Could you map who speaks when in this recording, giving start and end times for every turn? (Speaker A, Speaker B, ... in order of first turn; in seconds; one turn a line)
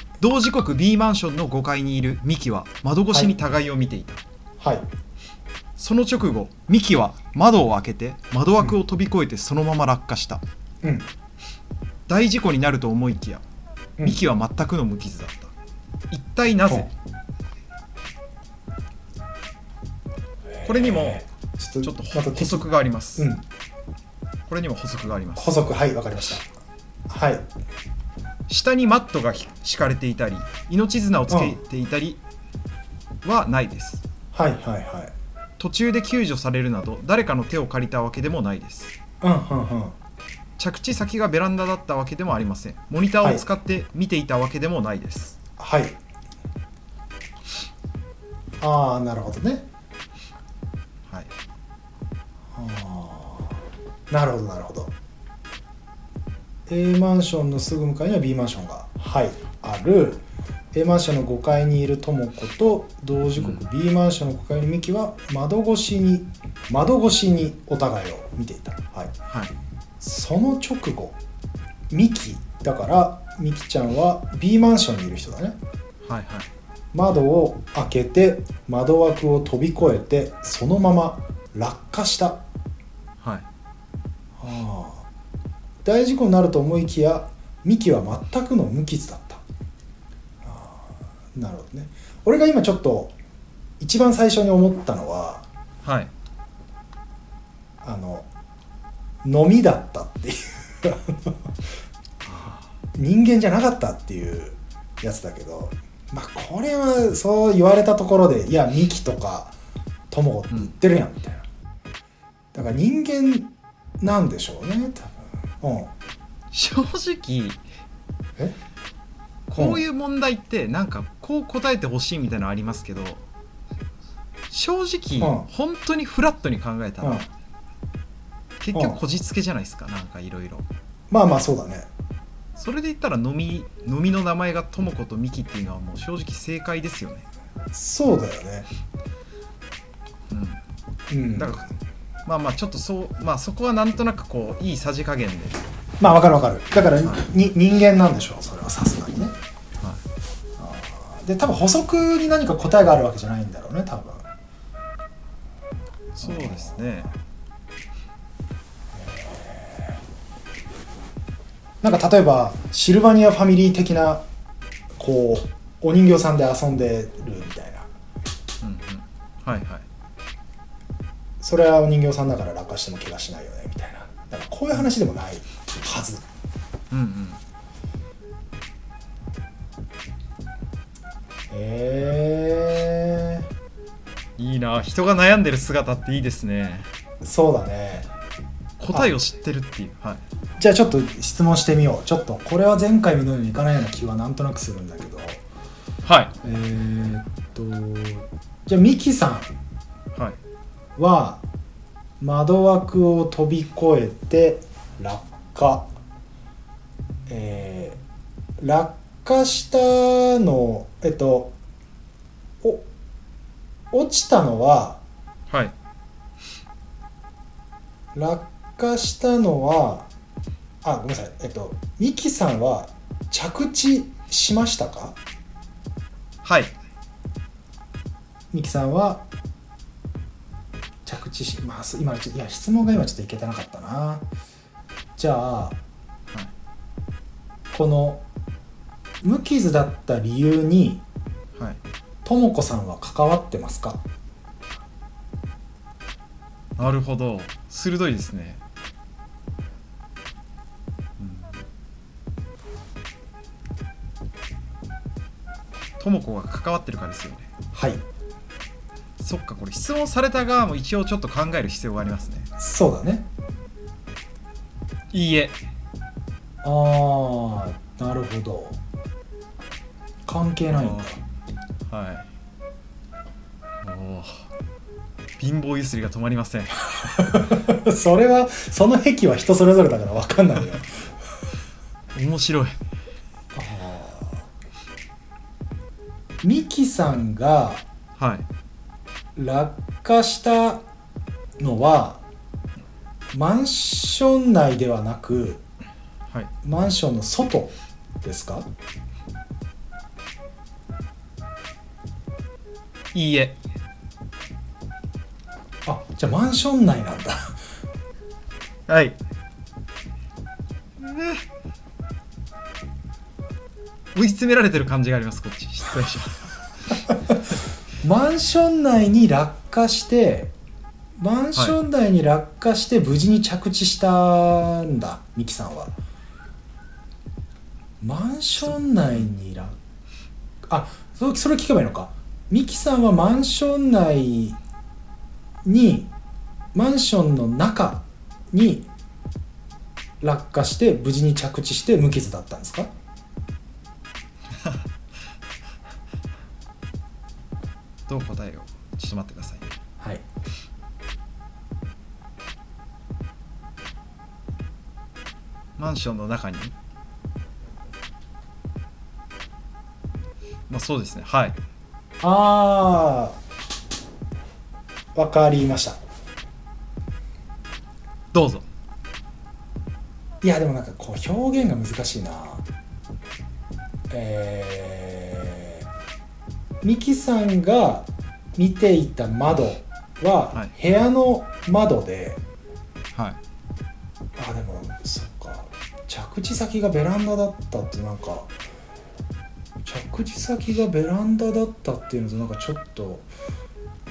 Speaker A: 0.2-4.2
Speaker B: 4.6-4.9
Speaker A: 5.8-10.4
Speaker B: 10.8-11.1
Speaker A: 12.1-13.4
Speaker A: 14.0-15.5
Speaker A: 16.1-16.9
Speaker B: 20.5-23.4
Speaker A: 20.6-21.2
Speaker A: 21.8-23.3
Speaker A: 24.5-25.5
Speaker B: 25.4-26.5
Speaker B: 27.1-27.5
Speaker A: 28.5-32.2
Speaker B: 31.3-31.6
Speaker A: 33.2-34.0
Speaker B: 34.3-35.1
Speaker A: 35.6-39.0
Speaker B: 39.2-40.0
Speaker A: 40.6-45.4
Speaker B: 43.2-43.4
Speaker B: 45.6-46.0
Speaker B: 48.6-49.7
Speaker B: 52.5-54.9
Speaker B: 56.7-60.2
Speaker B: 60.7-69.1
Speaker A: 63.4-63.7
Speaker B: 70.0-71.2
Speaker B: 71.9-75.6
Speaker A: 76.0-76.5
Speaker B: 76.9-82.4
Speaker A: 83.2-83.5
Speaker B: 84.4-85.0
Speaker B: 85.8-89.4
Speaker B: 90.4-93.1
Speaker B: 93.8-95.5
Speaker A: 95.8-96.1
Speaker B: 97.8-98.3
Speaker B: 99.2-101.4
Speaker A: 102.2-102.6
Speaker B: 103.0-109.5
Speaker B: 110.1-111.5
Speaker B: 112.5-115.9
Speaker A: 116.5-117.6
Speaker A: 119.5-123.2
Speaker A: 124.5-127.2
Speaker B: 125.2-125.5
Speaker B: 127.0-127.3
Speaker A: 128.6-130.7
Speaker B: 131.1-131.9
Speaker A: 132.6-137.2
Speaker B: 137.7-138.7
Speaker A: 140.3-140.6
Speaker B: 141.1-141.6
Speaker A: 141.3-141.7
Speaker A: 142.2-145.6
Speaker B: 146.0-149.3
Speaker B: 150.6-154.2
Speaker A: 156.2-157.1
Speaker B: 156.2-156.8
Speaker B: 158.9-160.0
Speaker B: 161.8-164.2
Speaker B: 165.0-167.9
Speaker A: 168.6-169.8
Speaker B: 171.4-176.2
Speaker A: 176.9-177.4
Speaker B: 181.5-183.5
Speaker A: 184.4-186.9
Speaker B: 187.2-188.1
Speaker A: 188.8-190.2
Speaker B: 188.9-189.2
Speaker B: 190.6-195.4
Speaker A: 196.1-196.3
Speaker B: 196.4-199.5
Speaker B: 201.0-201.4
Speaker B: 202.2-205.9
Speaker B: 207.3-208.0
Speaker B: 208.6-211.6
Speaker B: 213.9-215.0
Speaker B: 218.1-220.1
Speaker B: 220.8-225.2
Speaker A: 226.4-226.7
Speaker B: 228.5-229.2
Speaker B: 231.1-234.2
Speaker B: 235.2-235.8
Speaker B: 237.7-238.2
Speaker B: 239.2-241.0
Speaker B: 242.2-244.0
Speaker A: 246.8-248.6
Speaker A: 251.2-251.6
Speaker A: 256.0-257.5
Speaker B: 257.7-258.0
Speaker A: 259.2-262.5
Speaker B: 262.6-263.3
Speaker A: 265.1-265.6
Speaker B: 266.6-268.8
Speaker B: 270.2-271.2
Speaker A: 270.7-271.1
Speaker A: 271.9-272.3
Speaker A: 273.8-274.5
Speaker A: 275.4-277.2
Speaker B: 277.1-281.1
Speaker A: 282.1-282.8
Speaker B: 283.5-284.4
Speaker B: 286.4-287.8
Speaker A: 288.2-288.5
Speaker B: 289.4-290.8
Speaker B: 291.6-292.2
Speaker B: 293.3-295.6
Speaker B: 296.6-298.7
Speaker A: 303.1-303.6
Speaker B: 305.9-307.5
Speaker A: 308.9-309.2
Speaker A: 311.0-311.4
Speaker A: 314.1-316.4
Speaker B: 318.0-320.5
Speaker B: 321.2-325.9
Speaker B: 328.0-329.8
Speaker B: 330.7-334.6
Speaker B: 335.6-336.1
Speaker B: 336.7-338.9
Speaker B: 340.2-342.9
Speaker A: 344.6-344.9
Speaker A: 348.1-349.8
Speaker A: 355.8-356.7
Speaker A: 360.7-361.6
Speaker B: 362.2-363.4
Speaker B: 365.1-366.0
Speaker A: 368.3-368.6
Speaker B: 370.4-372.6
Speaker B: 374.1-375.9
Speaker B: 376.8-382.4
Speaker B: 384.4-388.5
Speaker B: 389.8-393.3